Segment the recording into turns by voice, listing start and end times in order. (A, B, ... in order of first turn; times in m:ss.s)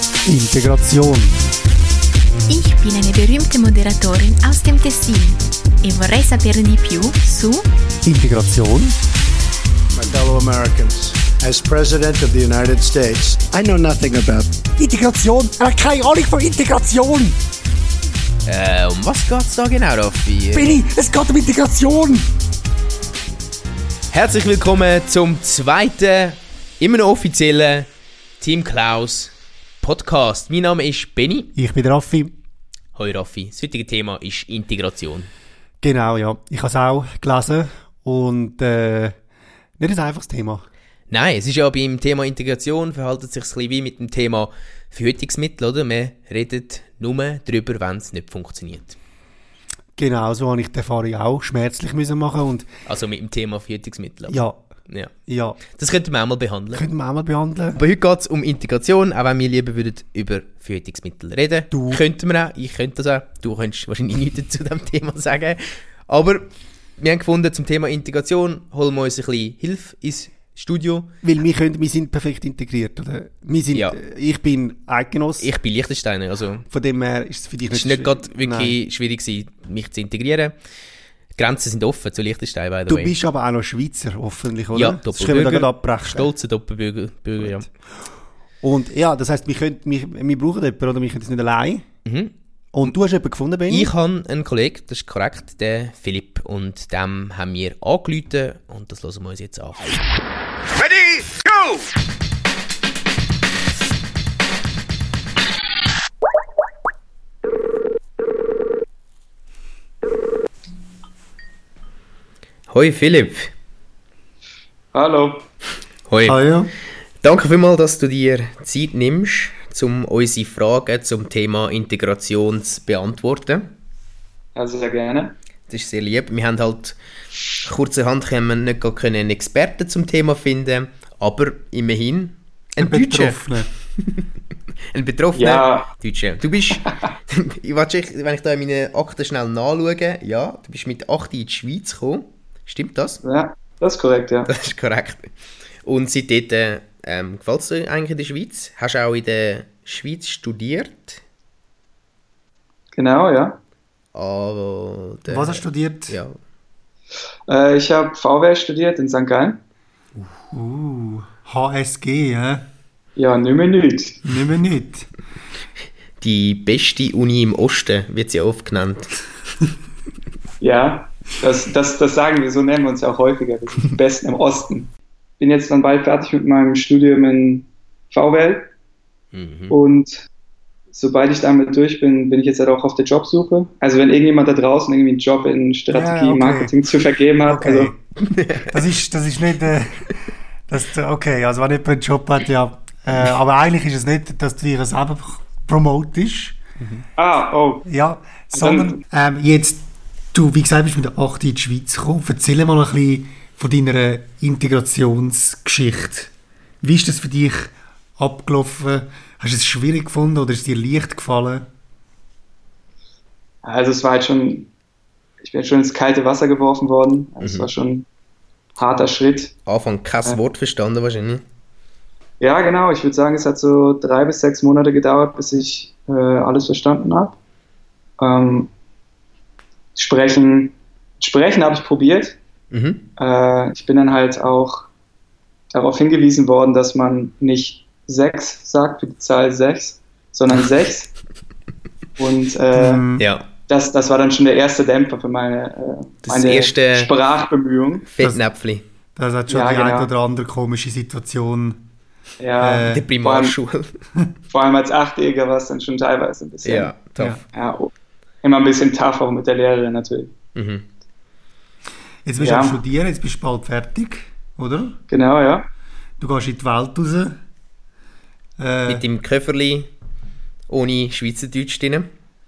0:00.3-0:01.3 A
0:02.5-0:05.3 B
0:05.8-0:07.6 B
0:08.0-0:09.0 A
0:10.0-0:14.6 C
0:14.8-0:17.4 A
0:18.5-0:20.8 D
0:20.5-0:22.2 A
0:24.1-0:27.9 D
0:28.4-0:31.5 D
0:31.5-0:32.3 A
0:33.0-0:35.3 D
0:35.8-0:39.1 A
0:39.8-0:40.7 A
0:41.1-0:49.0 D
0:50.0-0:52.7 A
0:52.8-0:55.1 D
0:54.3-0:54.6 A
0:55.3-0:55.6 A
0:55.7-0:56.8 D
0:56.7-0:57.8 A
0:57.8-1:11.1 D
1:01.7-1:02.0 A
1:11.2-1:15.5 A
1:13.7-1:14.0 D
1:15.4-1:16.6 D
1:16.7-1:18.8 A
1:17.7-1:20.6 D
1:21.4-1:23.1 D
1:22.9-1:26.3 A
1:24.7-1:27.7 D
1:28.6-1:31.8 A
1:32.0-1:32.3 D
1:32.7-1:33.9 A
1:33.7-1:39.8 D
1:52.7-1:53.5 D
1:54.9-1:55.5 E
1:56.1-1:56.4 D
1:56.2-1:56.7 A
1:57.2-2:03.7 D
2:04.5-2:05.3 E
2:05.7-2:07.0 D
2:07.6-2:13.5 D
2:12.8-2:13.7 A
2:14.9-2:23.2 D
2:15.3-2:15.9 E
2:23.2-2:24.5 E
2:24.4-2:25.3 D
2:25.8-2:31.2 D
2:32.9-2:33.6 E
2:34.1-2:36.3 D
2:35.3-2:36.2 A
2:37.5-2:39.6 E
2:40.5-2:42.7 A
2:43.2-2:44.3 E
2:44.2-2:45.1 A
2:46.2-2:49.2 D
2:50.6-2:58.7 E
2:59.3-2:59.8 D
2:59.7-3:00.2 E
3:00.9-3:07.9 E
3:05.9-3:06.8 A
3:07.4-3:08.0 A
3:08.2-3:08.8 D
3:08.6-3:10.1 A
3:10.7-3:16.6 A
3:16.8-3:17.0 D
3:17.2-3:17.8 E
3:17.8-3:26.3 A
3:18.5-3:19.0 E
3:26.8-3:31.7 A
3:33.6-3:34.7 E
3:35.4-3:38.0 E
3:37.4-3:37.7 D
3:38.8-3:39.5 E
3:39.7-3:41.4 D
3:42.4-3:47.4 E
3:48.2-3:48.7 E
3:50.0-3:52.4 E
3:52.7-3:53.1 D
3:53.2-3:54.9 E
3:55.7-4:01.1 E
4:02.2-4:03.0 E
4:02.7-4:03.2 A
4:03.2-4:03.5 D
4:03.7-4:08.1 E
4:06.2-4:07.1 D
4:08.1-4:08.8 D
4:09.2-4:11.8 A
4:09.5-4:10.1 E
4:12.4-4:13.6 E
4:12.6-4:13.1 A
4:12.9-4:13.9 D
4:14.5-4:16.9 E
4:16.6-4:17.4 D
4:17.5-4:17.9 E
4:18.4-4:20.3 E
4:20.6-4:20.9 D
4:22.2-4:25.0 A
4:22.4-4:22.8 E
4:25.1-4:25.6 E
4:26.2-4:27.3 A
4:28.6-4:29.0 A
4:28.9-4:29.9 D
4:30.7-4:32.1 D